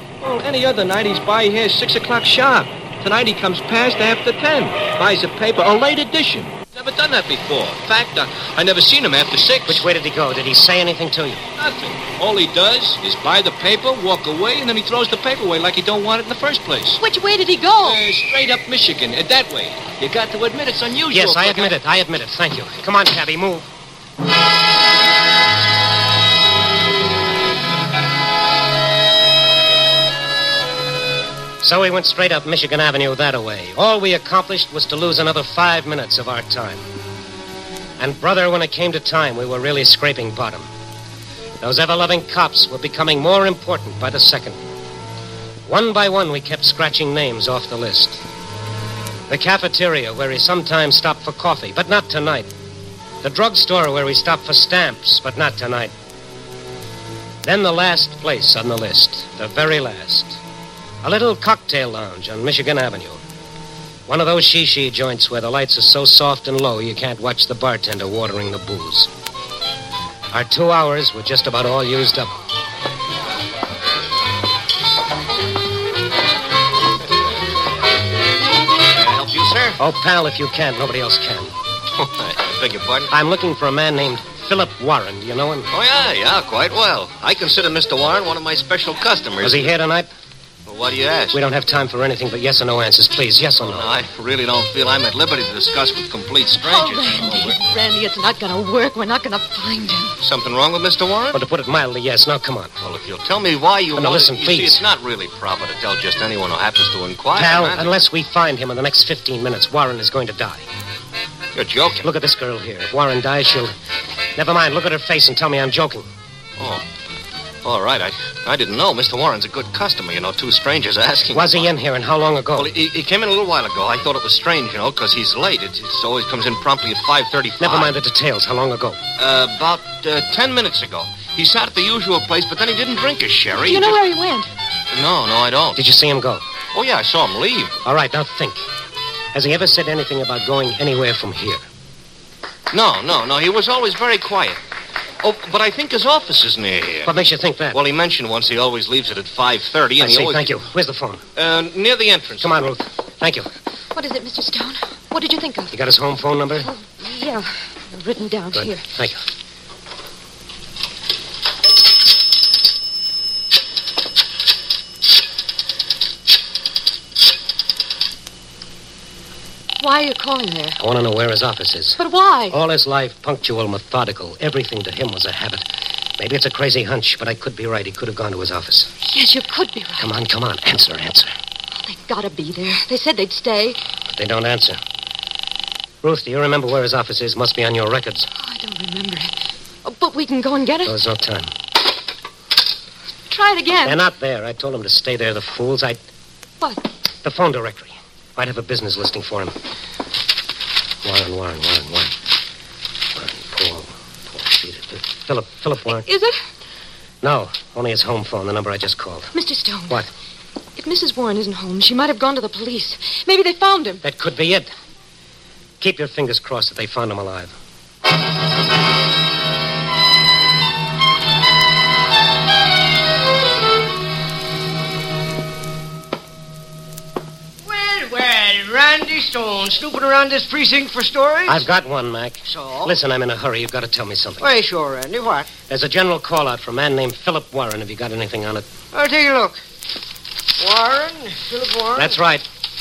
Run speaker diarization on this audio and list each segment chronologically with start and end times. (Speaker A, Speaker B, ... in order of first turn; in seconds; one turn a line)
Speaker A: 0.2-9.9
Speaker B: 9.7-11.4
Speaker A: 11.6-17.0
Speaker C: 17.0-18.0
Speaker A: 17.8-21.7
Speaker B: 21.1-23.7
Speaker B: 31.6-36.9
Speaker B: 38.0-40.7
Speaker B: 41.6-44.6
Speaker B: 45.7-48.2
Speaker B: 49.3-52.5
Speaker B: 53.2-55.9
Speaker B: 57.4-60.4
Speaker B: 61.0-63.2
Speaker B: 64.1-69.1
Speaker B: 70.3-72.3
Speaker D: 78.9-79.8
Speaker B: 79.8-81.5
Speaker D: 82.2-83.1
Speaker B: 83.1-85.7
Speaker D: 85.7-89.7
Speaker B: 89.4-90.1
Speaker D: 90.7-91.4
Speaker B: 91.3-93.9
Speaker D: 93.6-97.6
Speaker C: 96.6-100.2
Speaker D: 100.2-101.4
Speaker B: 101.3-102.8
Speaker D: 102.8-107.9
Speaker B: 104.0-104.8
Speaker B: 107.3-110.7
Speaker D: 111.5-112.1
Speaker B: 112.0-113.7
Speaker B: 114.3-116.1
Speaker D: 116.6-116.8
Speaker D: 117.6-121.7
Speaker B: 121.3-122.7
Speaker D: 122.5-128.0
Speaker B: 127.6-129.0
Speaker D: 129.2-134.0
Speaker C: 133.6-134.5
Speaker D: 134.9-135.8
Speaker B: 135.8-136.4
Speaker D: 136.7-137.8
Speaker B: 137.8-138.6
Speaker B: 139.3-141.6
Speaker D: 142.7-144.6
Speaker D: 145.2-147.2
Speaker B: 147.0-147.8
Speaker D: 147.7-150.5
Speaker B: 150.0-151.2
Speaker D: 151.3-152.6
Speaker B: 152.4-153.5
Speaker C: 153.9-155.7
Speaker B: 155.7-156.7
Speaker C: 156.7-158.8
Speaker B: 158.5-159.2
Speaker C: 169.8-170.8
Speaker B: 170.8-175.7
Speaker C: 172.0-172.6
Speaker B: 176.2-178.9
Speaker C: 179.0-180.1
Speaker B: 180.0-181.3
Speaker C: 181.8-183.8
Speaker B: 184.1-184.8
Speaker B: 186.0-188.3
Speaker C: 188.3-189.3
Speaker C: 189.8-191.0
Speaker B: 190.8-191.5
Speaker C: 193.3-194.0
Speaker B: 193.8-196.0
Speaker B: 197.2-199.5
Speaker B: 201.0-202.2
Speaker B: 203.2-206.1
Speaker C: 205.9-206.3
Speaker B: 207.2-209.3
Speaker C: 209.3-210.1
Speaker C: 210.8-214.0
Speaker B: 214.0-214.7
Speaker B: 215.8-217.5
Speaker E: 227.7-231.7
Speaker B: 231.5-234.5
Speaker E: 232.5-232.9
Speaker E: 234.4-235.5
Speaker B: 235.7-238.7
Speaker E: 238.9-239.6
Speaker E: 240.6-242.2
Speaker B: 241.9-242.4